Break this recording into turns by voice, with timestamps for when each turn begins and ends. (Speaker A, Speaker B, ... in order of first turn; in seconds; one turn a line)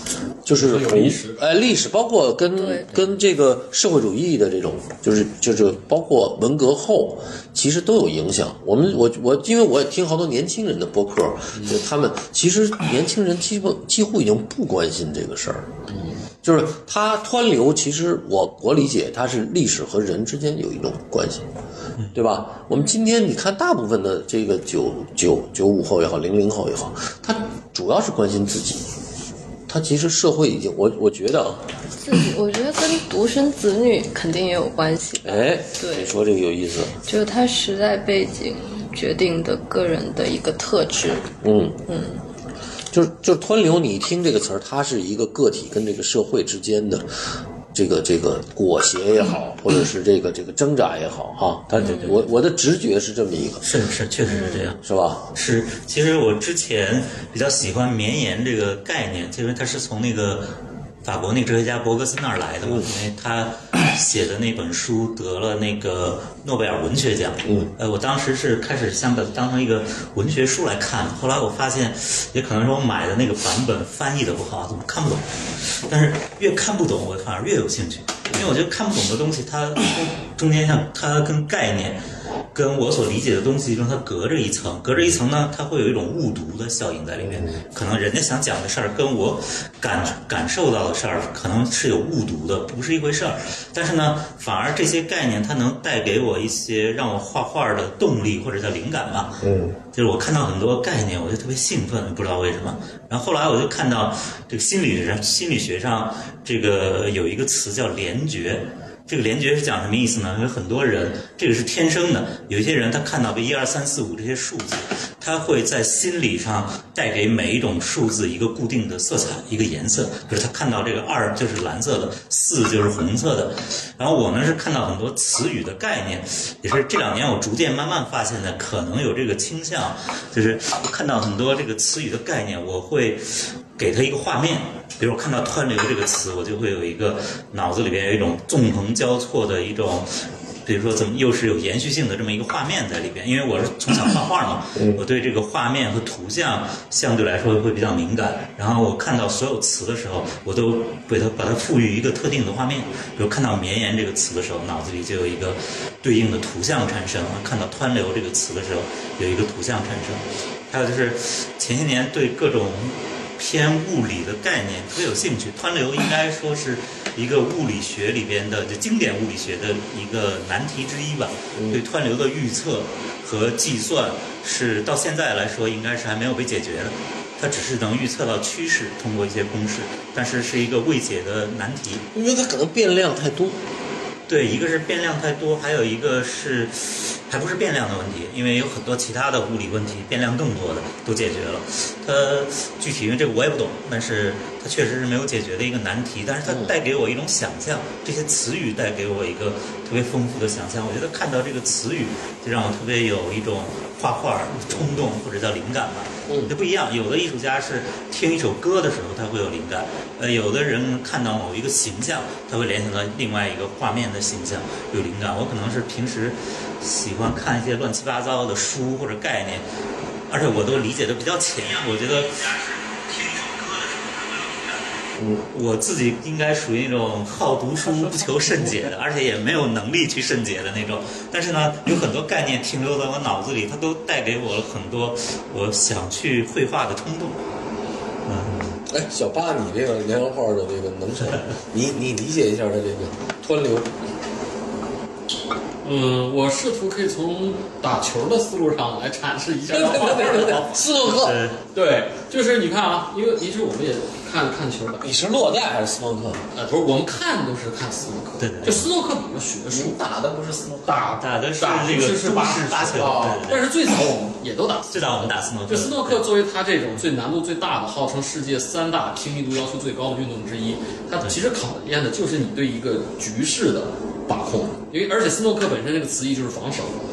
Speaker A: 0.4-15.7
Speaker B: 0.5-1.5
Speaker C: 2.5-2.9
Speaker B: 11.5-11.8
Speaker B: 15.9-16.2
Speaker A: 16.4-21.5
Speaker A: 22.1-28.9
Speaker C: 22.7-23.0
Speaker A: 29.7-31.6
Speaker C: 32.0-36.2
Speaker A: 35.2-37.0
Speaker C: 37.0-41.3
Speaker A: 41.4-41.8
Speaker C: 41.9-42.2
Speaker A: 42.9-47.1
Speaker A: 47.7-53.6
Speaker C: 51.8-52.1
Speaker D: 53.6-54.8
Speaker C: 54.2-54.7
Speaker A: 54.8-55.2
Speaker D: 55.3-82.0
Speaker A: 62.6-62.9
Speaker A: 67.4-67.7
Speaker D: 82.5-99.4
Speaker A: 87.2-87.6
Speaker A: 99.4-99.8
Speaker D: 99.9-182.1
Speaker A: 144.7-145.0
Speaker A: 171.5-171.8
Speaker A: 182.1-183.6
Speaker D: 184.3-219.6
Speaker A: 196.4-196.7
Speaker A: 206.3-206.5
Speaker D: 220.3-224.8
Speaker A: 225.2-225.4
Speaker D: 225.5-237.4
Speaker D: 238.2-238.6
Speaker A: 238.5-243.9
Speaker B: 245.8-250.9
Speaker A: 249.7-251.4
Speaker D: 251.0-251.6
Speaker B: 251.7-255.2
Speaker A: 255.0-256.4
Speaker B: 256.5-260.0
Speaker D: 258.4-258.9
Speaker E: 259.7-261.1
Speaker B: 260.9-277.0
Speaker D: 261.1-263.7
Speaker E: 263.0-263.4
Speaker D: 264.9-266.2